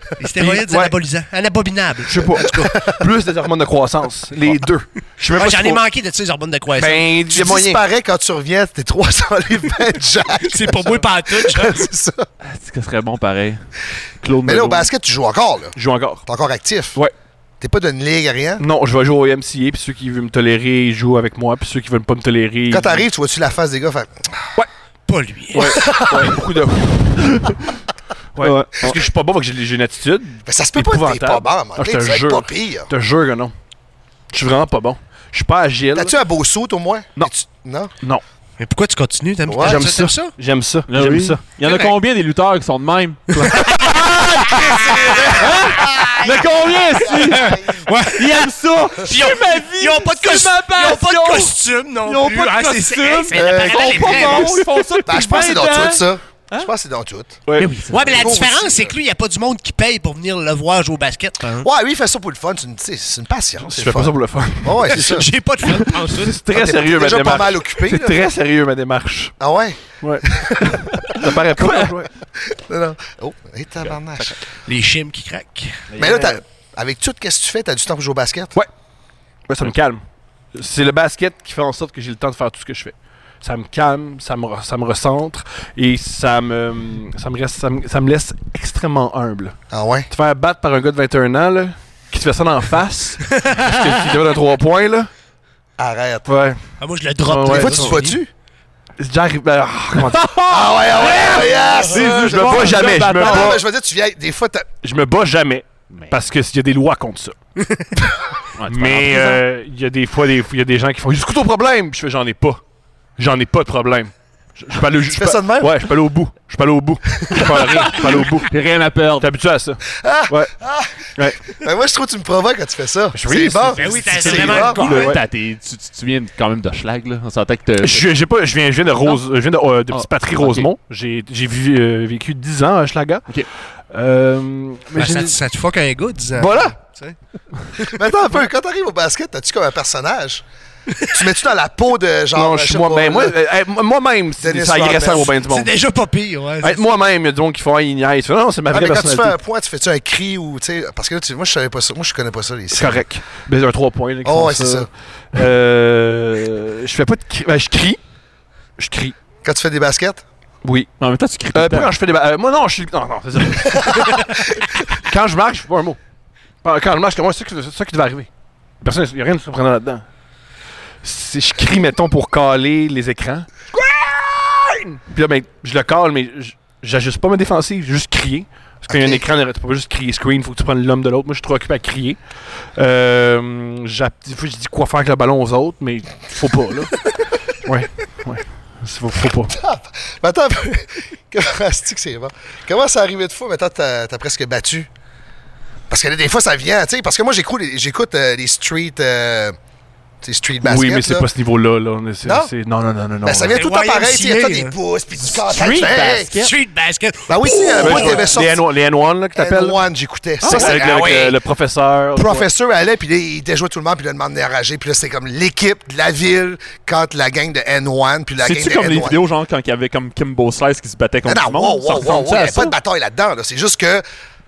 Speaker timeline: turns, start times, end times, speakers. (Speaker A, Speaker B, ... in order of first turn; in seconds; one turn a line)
Speaker A: 0.2-2.8
Speaker B: 0.4-0.9
Speaker B: 2.1-5.8
Speaker A: 5.3-7.2
Speaker B: 6.8-7.8
Speaker C: 7.3-12.3
Speaker A: 10.4-11.9
Speaker D: 12.4-13.6
Speaker D: 14.2-14.9
Speaker C: 14.4-17.0
Speaker B: 15.8-16.2
Speaker C: 17.6-18.6
Speaker B: 18.6-23.0
Speaker C: 22.7-24.4
Speaker A: 25.1-25.8
Speaker B: 25.5-27.3
Speaker C: 25.6-26.4
Speaker D: 27.2-27.5
Speaker B: 28.4-33.5
Speaker D: 28.4-29.0
Speaker C: 30.5-32.9
Speaker B: 34.3-36.1
Speaker C: 36.0-37.9
Speaker A: 38.6-40.4
Speaker C: 39.5-39.9
Speaker B: 39.6-41.4
Speaker D: 40.9-56.7
Speaker A: 41.6-41.9
Speaker A: 43.3-43.9
Speaker A: 44.5-46.4
Speaker C: 45.0-46.1
Speaker A: 47.1-54.6
Speaker C: 47.2-47.9
Speaker C: 53.3-54.5
Speaker B: 54.3-54.8
Speaker C: 55.1-57.4
Speaker B: 57.5-57.8
Speaker D: 57.5-58.3
Speaker A: 57.9-61.7
Speaker C: 58.2-59.0
Speaker C: 61.6-65.3
Speaker B: 63.6-69.3
Speaker A: 64.9-66.4
Speaker C: 66.5-68.2
Speaker C: 69.4-70.8
Speaker B: 70.0-72.1
Speaker D: 71.5-71.9
Speaker C: 72.5-74.4
Speaker A: 74.7-75.8
Speaker B: 76.0-76.3
Speaker C: 76.0-78.6
Speaker B: 79.5-80.0
Speaker B: 80.5-89.6
Speaker C: 89.7-90.1
Speaker B: 90.1-95.1
Speaker C: 95.8-96.3
Speaker B: 96.3-96.6
Speaker A: 96.8-98.2
Speaker B: 97.3-98.0
Speaker C: 97.5-98.3
Speaker B: 99.0-100.4
Speaker D: 100.1-103.5
Speaker C: 100.5-104.7
Speaker B: 102.0-103.6
Speaker B: 104.8-107.3
Speaker D: 105.9-106.2
Speaker D: 108.6-109.4
Speaker B: 108.7-112.6
Speaker B: 113.2-118.5
Speaker C: 115.1-115.9
Speaker C: 117.2-117.5
Speaker D: 117.8-119.3
Speaker B: 119.2-120.5
Speaker C: 120.0-124.8
Speaker B: 121.2-121.5
Speaker B: 123.1-125.2
Speaker A: 123.8-125.1
Speaker D: 124.2-128.1
Speaker B: 127.8-133.3
Speaker D: 129.9-130.7
Speaker B: 133.9-135.4
Speaker A: 134.9-137.2
Speaker B: 136.4-136.8
Speaker C: 137.9-140.4
Speaker C: 141.1-143.4
Speaker B: 142.3-145.7
Speaker C: 144.4-145.3
Speaker A: 145.2-146.8
Speaker B: 146.6-149.4
Speaker C: 148.7-153.0
Speaker B: 152.7-158.0
Speaker C: 154.2-154.9
Speaker B: 158.8-159.2
Speaker C: 159.4-160.2
Speaker B: 160.6-160.9
Speaker D: 161.0-161.9
Speaker B: 161.5-164.4
Speaker C: 163.7-164.3
Speaker B: 164.9-166.0
Speaker B: 166.6-168.3
Speaker B: 168.8-170.0
Speaker B: 171.0-182.2
Speaker C: 178.9-179.2
Speaker B: 182.8-187.0
Speaker B: 187.7-189.6
Speaker C: 189.6-194.9
Speaker C: 195.9-199.6
Speaker C: 200.2-201.3
Speaker B: 200.6-203.6
Speaker C: 202.2-202.5
Speaker C: 203.2-206.4
Speaker A: 203.5-204.8
Speaker D: 205.3-206.5
Speaker A: 206.3-208.3
Speaker C: 207.3-208.7
Speaker B: 207.8-209.8
Speaker C: 209.3-211.4
Speaker D: 210.4-210.8
Speaker B: 210.4-212.5
Speaker C: 212.2-219.2
Speaker D: 218.4-222.7
Speaker C: 221.2-224.0